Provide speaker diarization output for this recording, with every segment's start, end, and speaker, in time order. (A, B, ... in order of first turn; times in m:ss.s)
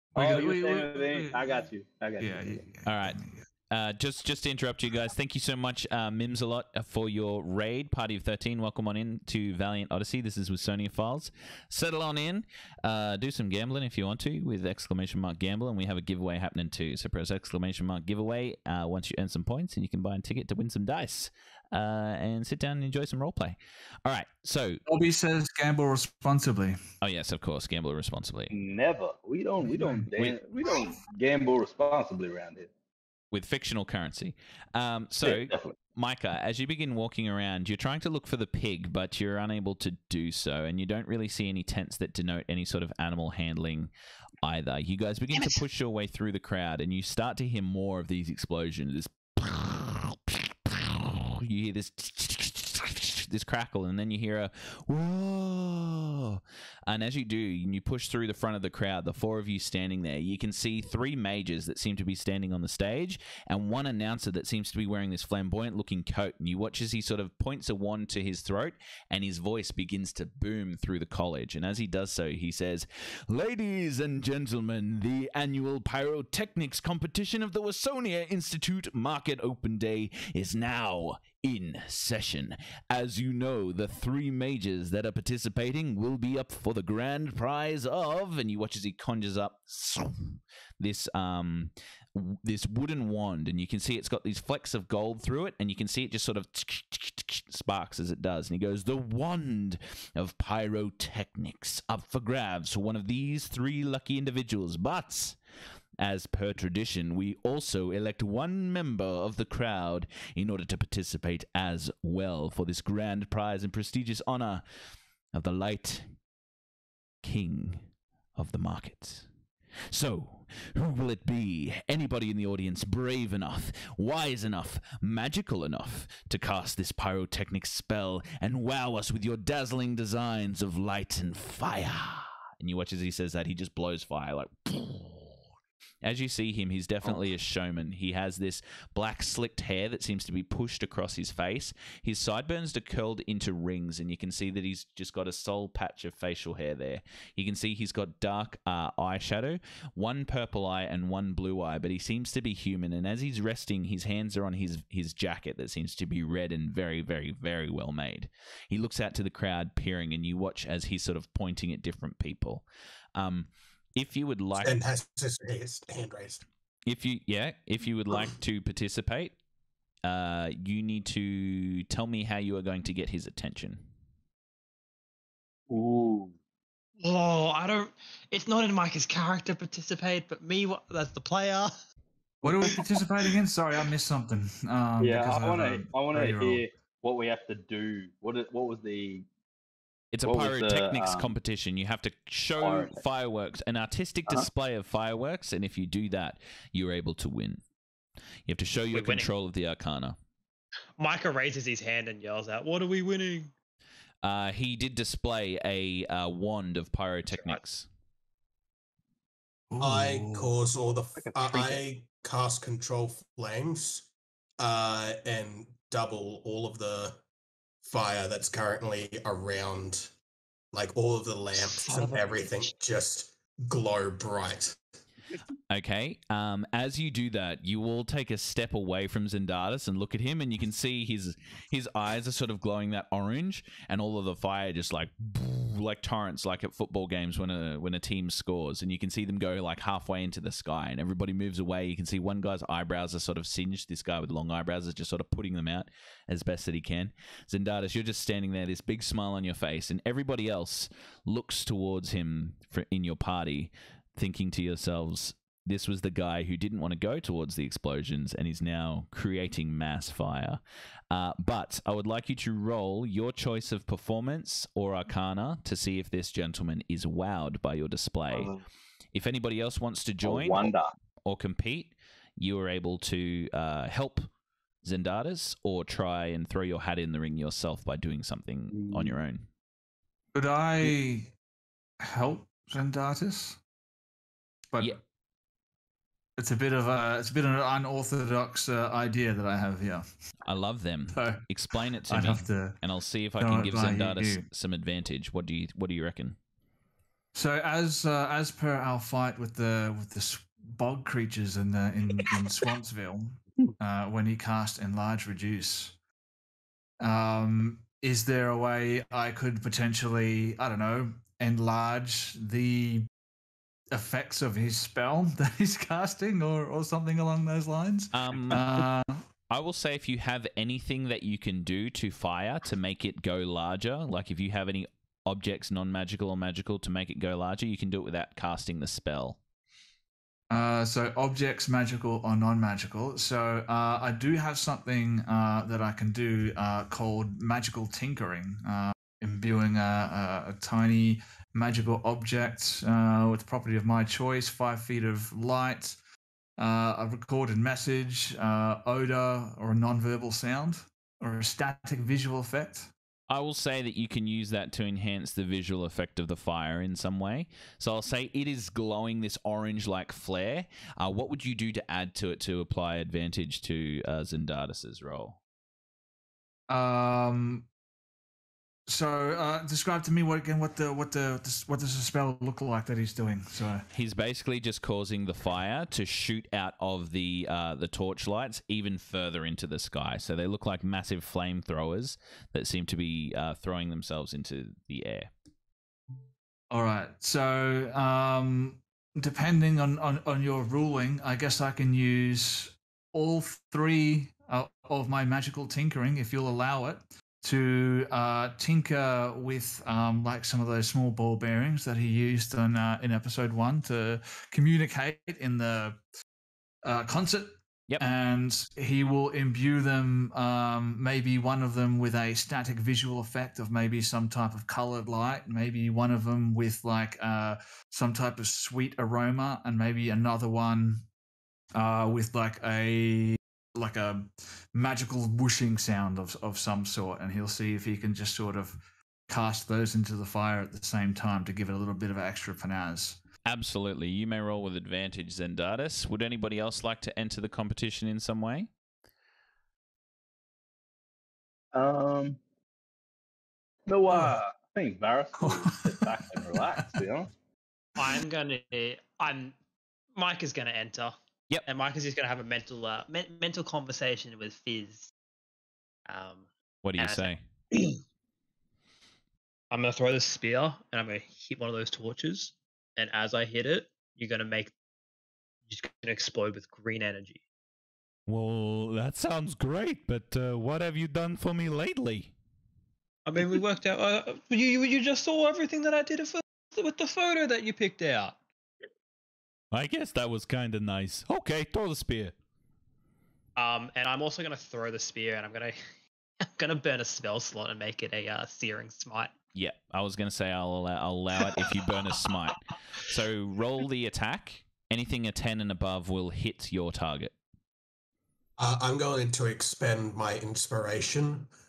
0:00.2-0:01.6 A
0:00.2-0:02.7 B
0:02.2-0:03.5 A
0:02.9-0:03.2 C
0:03.7-0:24.8 C
0:24.9-0:26.8 A
0:27.0-0:28.5 C
0:28.5-0:32.7 B
0:29.6-0:30.1 A
0:33.3-0:43.9 C
0:35.2-0:35.8 B
0:44.4-1:45.4 C
1:46.0-1:54.6 C
1:55.3-1:56.2 C
1:57.2-1:59.3 C
1:59.9-2:15.4 C
2:16.0-2:42.6 C
2:43.2-2:44.8 C
2:44.6-2:46.4 D
2:46.9-2:49.4 C
2:50.0-2:53.8 C
2:55.7-2:56.4 B
2:57.0-3:01.7 E
3:02.4-3:06.6 A
3:05.0-3:09.2 B
3:10.1-3:17.6 C
3:10.2-3:11.3 B
3:12.6-3:13.0 B
3:18.5-3:20.2 C
3:18.9-3:19.3 E
3:21.0-3:23.5 E
3:24.2-3:27.9 C
3:27.3-3:27.6 E
3:29.7-3:30.5 A
3:29.8-3:37.2 D
3:31.2-3:31.8 B
3:37.8-3:40.1 D
3:40.7-3:44.8 D
3:45.7-4:20.6 C
4:21.1-4:28.5 C
4:28.3-4:28.6 B
4:29.1-4:30.7 C
4:30.2-4:30.9 B
4:31.2-4:34.3 C
4:34.8-4:39.5 C
4:38.7-4:39.2 B
4:40.3-4:41.3 A
4:42.0-4:43.6 A
4:46.4-4:50.1 A
4:50.4-4:56.4 C
4:51.1-4:51.4 A
4:52.1-4:52.8 A
4:53.4-4:54.5 A
4:57.3-5:06.0 A
5:07.0-5:13.1 A
5:13.9-5:19.2 A
5:18.1-5:18.9 C
5:19.5-5:29.4 C
5:30.5-5:46.0 A
5:46.6-5:52.9 A
5:53.3-6:05.4 C
6:06.7-6:07.7 A
6:08.9-6:13.8 A
6:13.9-6:25.3 C
6:26.7-6:46.0 A
6:46.8-7:01.0 A
7:01.8-7:13.2 A
7:13.4-7:18.7 C
7:21.7-7:22.4 B
7:23.9-7:27.3 B
7:24.1-7:24.4 A
7:25.4-7:27.0 A
7:28.0-7:29.6 E
7:30.2-7:31.1 E
7:31.7-7:35.1 E
7:36.1-7:36.5 E
7:36.8-7:37.4 C
7:37.0-7:38.0 E
7:39.7-7:44.7 E
7:45.7-7:47.4 E
7:48.3-7:52.3 C
7:53.3-7:58.4 E
7:59.7-8:02.3 C
8:03.6-8:05.8 E
8:06.4-8:09.3 E
8:09.5-8:17.3 C
8:18.6-8:21.5 D